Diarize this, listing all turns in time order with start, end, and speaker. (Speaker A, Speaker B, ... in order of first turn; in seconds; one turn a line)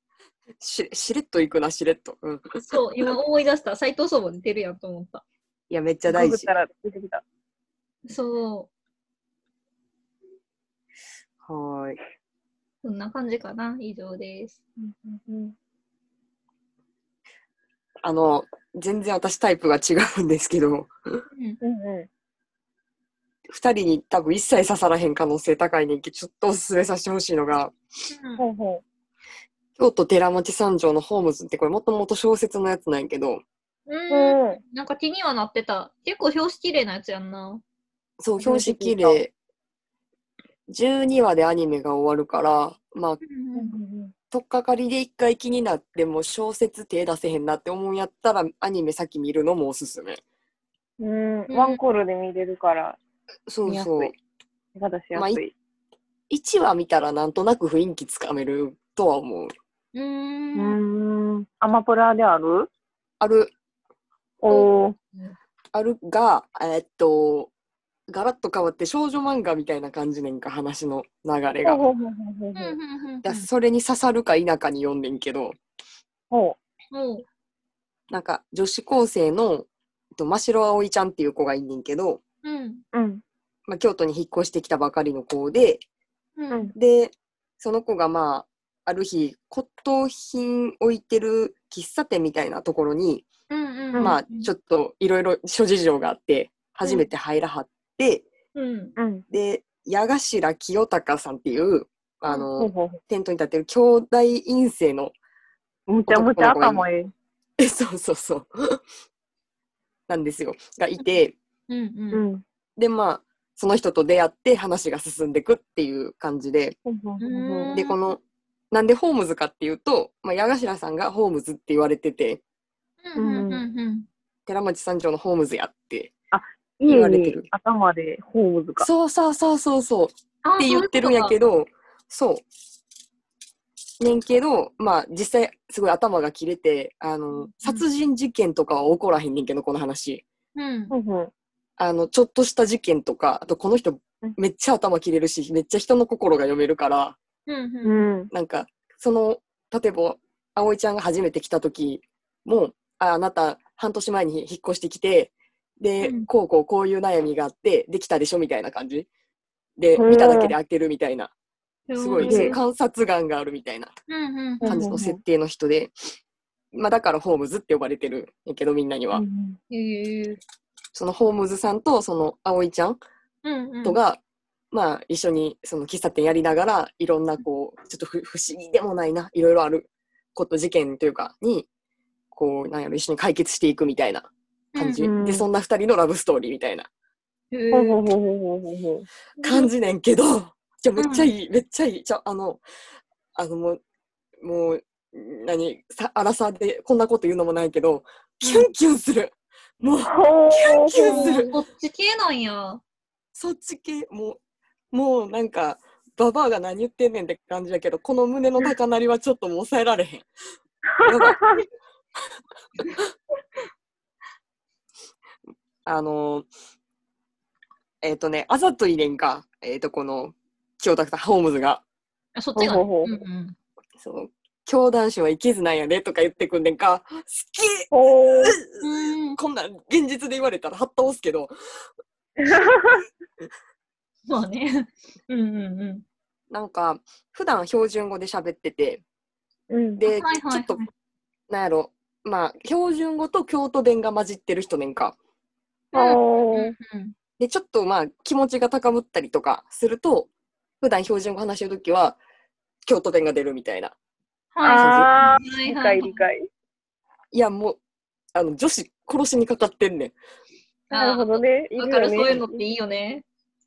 Speaker A: 0.6-2.4
Speaker B: 2.6-5.2
Speaker A: 5.7-6.5
Speaker C: 6.1-7.2
Speaker B: 8.1-8.7
Speaker A: 11.4-12.0
Speaker B: 12.8-14.5
Speaker C: 14.8-15.5
Speaker A: 18.0-21.2
Speaker B: 21.3-21.6
Speaker C: 21.6-22.1
Speaker A: 23.5-27.7
Speaker B: 28.1-28.4
Speaker C: 28.4-28.8
Speaker A: 29.8-33.4
Speaker B: 33.9-37.6
Speaker C: 34.1-34.6
Speaker A: 38.2-39.3
Speaker C: 38.4-39.2
Speaker A: 40.7-43.2
Speaker B: 43.2-43.7
Speaker C: 43.5-44.1
Speaker A: 44.3-50.2
Speaker C: 51.0-53.0
Speaker B: 51.5-51.8
Speaker A: 53.5-54.1
Speaker C: 53.7-54.1
Speaker C: 54.7-55.5
Speaker A: 55.1-55.4
Speaker A: 56.3-59.5
Speaker B: 59.9-60.8
Speaker C: 60.5-62.7
Speaker A: 63.2-63.5
Speaker C: 64.4-64.9
Speaker B: 64.5-65.3
Speaker A: 65.7-67.5
Speaker A: 68.1-71.8
Speaker C: 71.6-72.8
Speaker B: 72.5-73.5
Speaker A: 73.2-75.5
Speaker C: 76.3-76.6
Speaker B: 76.9-77.2
Speaker A: 78.1-82.2
Speaker B: 82.4-82.8
Speaker C: 82.9-83.2
Speaker A: 83.7-85.8
Speaker B: 86.4-86.7
Speaker A: 86.8-93.3
Speaker B: 93.5-94.5
Speaker A: 94.0-98.3
Speaker B: 98.5-99.0
Speaker C: 99.0-99.2
Speaker A: 99.3-105.1
Speaker C: 102.6-103.0
Speaker C: 105.9-107.1
Speaker A: 106.0-106.8
Speaker A: 107.6-108.8
Speaker A: 110.1-111.3
Speaker B: 111.7-112.2
Speaker C: 112.1-112.4
Speaker A: 112.8-116.8
Speaker C: 116.8-117.7
Speaker B: 117.2-118.0
Speaker A: 117.7-118.2
Speaker A: 118.7-122.4
Speaker B: 123.0-124.1
Speaker C: 123.2-123.6
Speaker A: 124.5-126.1
Speaker C: 126.3-128.9
Speaker A: 126.9-127.5
Speaker A: 128.8-132.4
Speaker B: 130.4-131.3
Speaker A: 134.0-140.2
Speaker B: 137.4-137.8
Speaker B: 140.6-140.9
Speaker C: 140.9-141.3
Speaker A: 141.8-147.2
Speaker B: 147.5-148.1
Speaker C: 147.8-148.3
Speaker A: 148.3-159.1
Speaker B: 156.0-156.3
Speaker A: 159.8-161.3
Speaker C: 160.0-160.5
Speaker B: 161.9-162.6
Speaker A: 162.0-163.9
Speaker C: 162.2-162.5
Speaker B: 164.1-164.9
Speaker C: 164.6-165.2
Speaker A: 164.6-165.9
Speaker A: 166.7-169.2
Speaker C: 169.1-169.6
Speaker B: 169.7-170.4
Speaker A: 170.9-173.0
Speaker B: 173.4-174.0
Speaker A: 173.8-174.2
Speaker A: 174.7-181.7
Speaker A: 182.3-186.9
Speaker B: 184.7-185.1
Speaker C: 185.0-185.4
Speaker B: 187.5-188.0
Speaker C: 187.7-189.1
Speaker B: 189.4-189.7
Speaker A: 189.4-192.6
Speaker B: 191.0-191.3
Speaker A: 193.3-193.8
Speaker A: 194.4-201.5
Speaker B: 198.4-198.7
Speaker C: 200.1-201.4
Speaker B: 201.0-202.8
Speaker A: 203.3-204.4
Speaker A: 204.9-210.3
Speaker C: 211.0-211.6
Speaker A: 211.0-211.4
Speaker A: 215.8-216.5
Speaker A: 218.0-221.8
Speaker B: 222.3-223.6
Speaker C: 222.6-223.1
Speaker A: 224.0-227.9
Speaker C: 227.9-228.6
Speaker A: 228.4-231.5
Speaker B: 228.8-229.4
Speaker C: 232.4-233.1
Speaker B: 234.3-236.0
Speaker A: 236.5-239.0
Speaker C: 239.7-240.0
Speaker A: 240.0-240.8
Speaker B: 240.1-240.9
Speaker A: 241.5-245.2
Speaker C: 245.9-246.7
Speaker B: 245.9-247.1
Speaker A: 247.4-250.3
Speaker A: 250.8-252.2
Speaker A: 252.8-253.9
Speaker B: 254.5-256.2
Speaker C: 254.6-256.5
Speaker A: 254.7-255.1
Speaker A: 257.3-257.8
Speaker A: 258.3-260.1
Speaker B: 260.9-263.2
Speaker C: 260.9-262.6